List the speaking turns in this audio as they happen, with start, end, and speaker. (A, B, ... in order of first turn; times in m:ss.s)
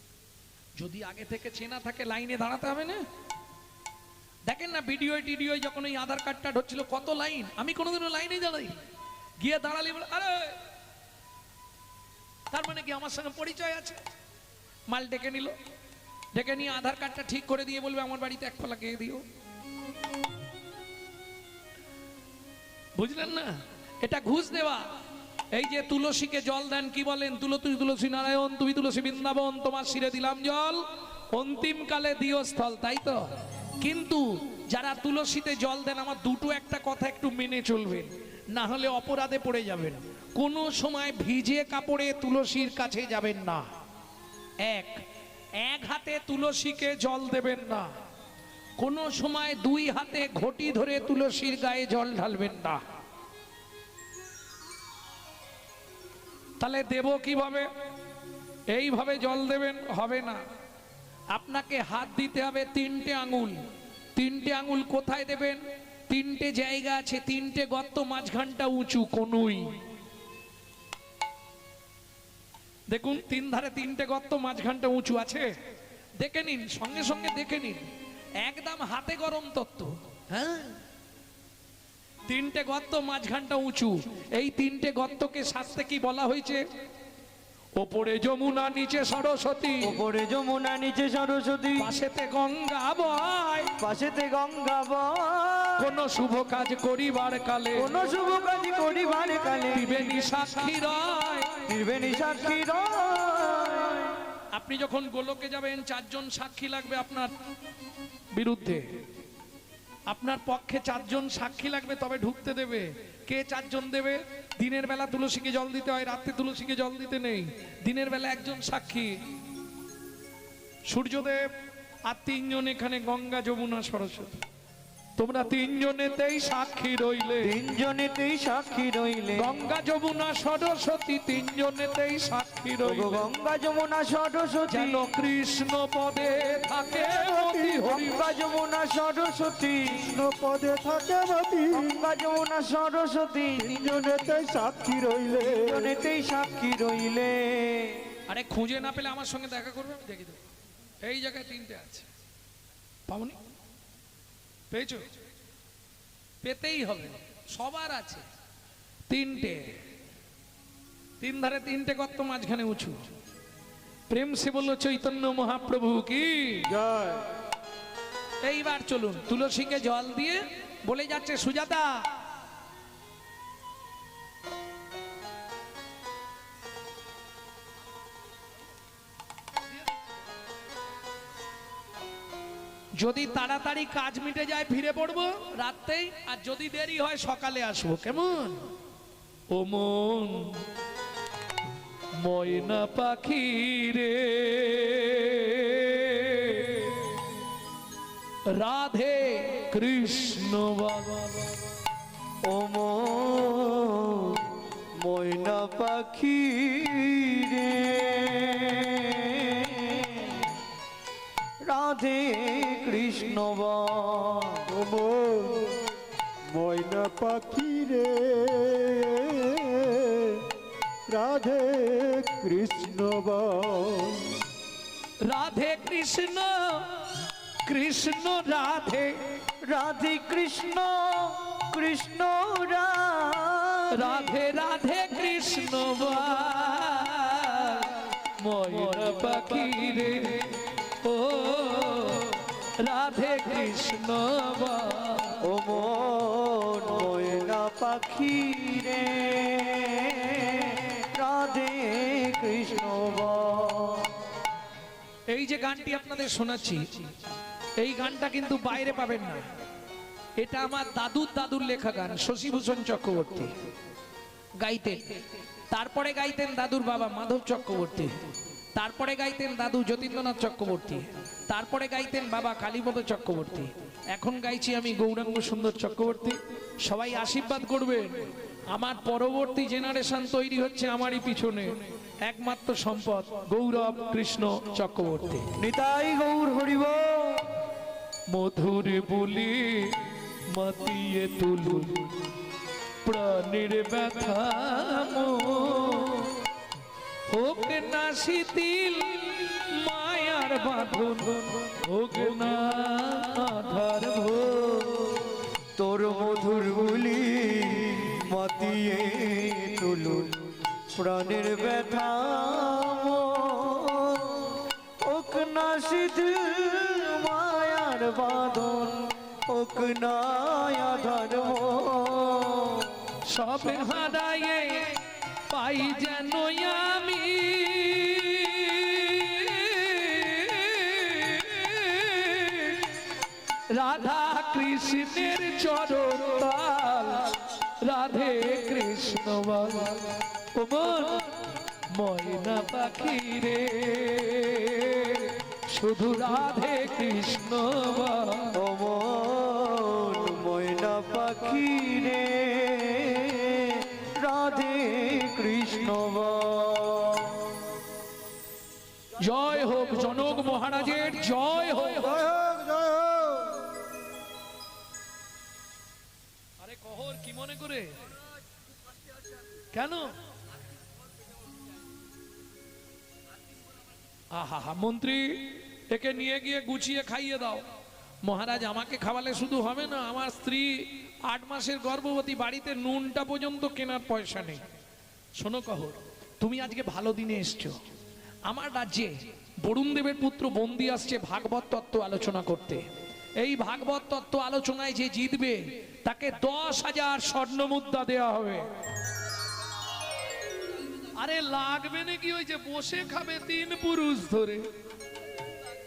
0:00.8-0:03.0 A
0:04.4-0:08.7 A
0:09.4-0:10.6 A
0:12.5-0:14.0 A
0:14.9-0:15.5 A
0:16.3-0:19.2 A
0:23.0-0:24.8 A
0:25.5-0:30.8 A
0:31.3-0:33.2 A
0:33.8-0:43.6 A
0:44.6-0:45.0 A
0:45.6-0:47.9 A
0:48.8-0:52.8 A
0:56.6-0:57.7 A
0:58.7-1:00.4 A
1:01.3-1:03.6 A
1:04.2-1:09.8 A
1:12.9-1:15.5 A
1:16.2-1:17.8 A
1:18.4-1:20.8 A
1:22.3-1:26.6 A
1:27.8-1:30.0 A
1:29.8-1:31.9 B
1:31.8-1:33.7 A
1:33.8-1:35.8 B
1:35.8-1:37.9 A
1:37.8-1:39.9 B
1:39.7-1:41.6 A
1:41.7-1:44.2 B
1:44.5-1:47.3 A
1:48.3-1:48.8 A
1:50.1-1:59.1 A
2:00.9-2:01.4 A
2:02.0-2:04.3 A
2:05.2-2:07.5 A
2:07.4-2:09.5 B
2:09.4-2:13.2 A
2:12.8-2:15.0 B
2:14.7-2:18.2 A
2:16.9-2:18.0 C
2:17.9-2:20.1 B
2:19.9-2:22.0 C
2:21.7-2:23.8 B
2:23.6-2:26.0 C
2:25.5-2:28.1 B
2:28.3-2:30.4 A
2:31.0-2:32.1 A
2:33.1-2:33.3 A
2:34.7-2:35.0 A
2:36.4-2:38.2 A
2:39.1-2:39.6 A
2:41.2-2:43.0 A
2:44.1-2:46.7 A
2:46.7-2:47.3 C
2:48.4-2:52.0 A
3:03.0-3:08.6 A
3:09.5-3:10.6 A
3:12.2-3:16.8 A
3:18.5-3:21.3 A
3:22.4-3:30.4 B
3:31.6-3:34.6 B
3:34.7-3:35.8 C
3:36.5-3:40.4 C
3:41.1-3:44.3 C
3:45.2-3:47.0 A
3:47.6-3:49.1 A
3:49.6-3:54.2 B
3:53.9-4:05.4 A
4:05.4-4:14.1 B
4:15.3-4:17.0 A
4:17.8-4:19.4 A
4:20.4-4:23.5 A
4:24.6-4:28.1 A
4:28.8-4:38.2 A
4:38.7-4:45.5 A
4:45.6-4:47.4 B
4:48.3-4:50.0 A
4:50.5-4:52.1 A
4:53.0-4:56.3 A
4:57.3-5:05.2 A
5:05.8-5:23.0 B
5:23.3-5:24.9 A
5:25.5-5:32.9 A
5:33.7-5:39.9 A
5:40.5-5:48.5 A
5:48.5-5:57.5 B
5:59.2-6:02.3 A
6:02.2-6:03.5 C
6:06.6-6:08.0 A
6:09.7-6:10.1 A
6:14.3-6:17.6 A
6:18.2-6:24.6 A
6:25.4-6:27.8 A
6:28.4-6:32.8 A
6:33.4-6:38.6 A
6:41.2-6:44.6 A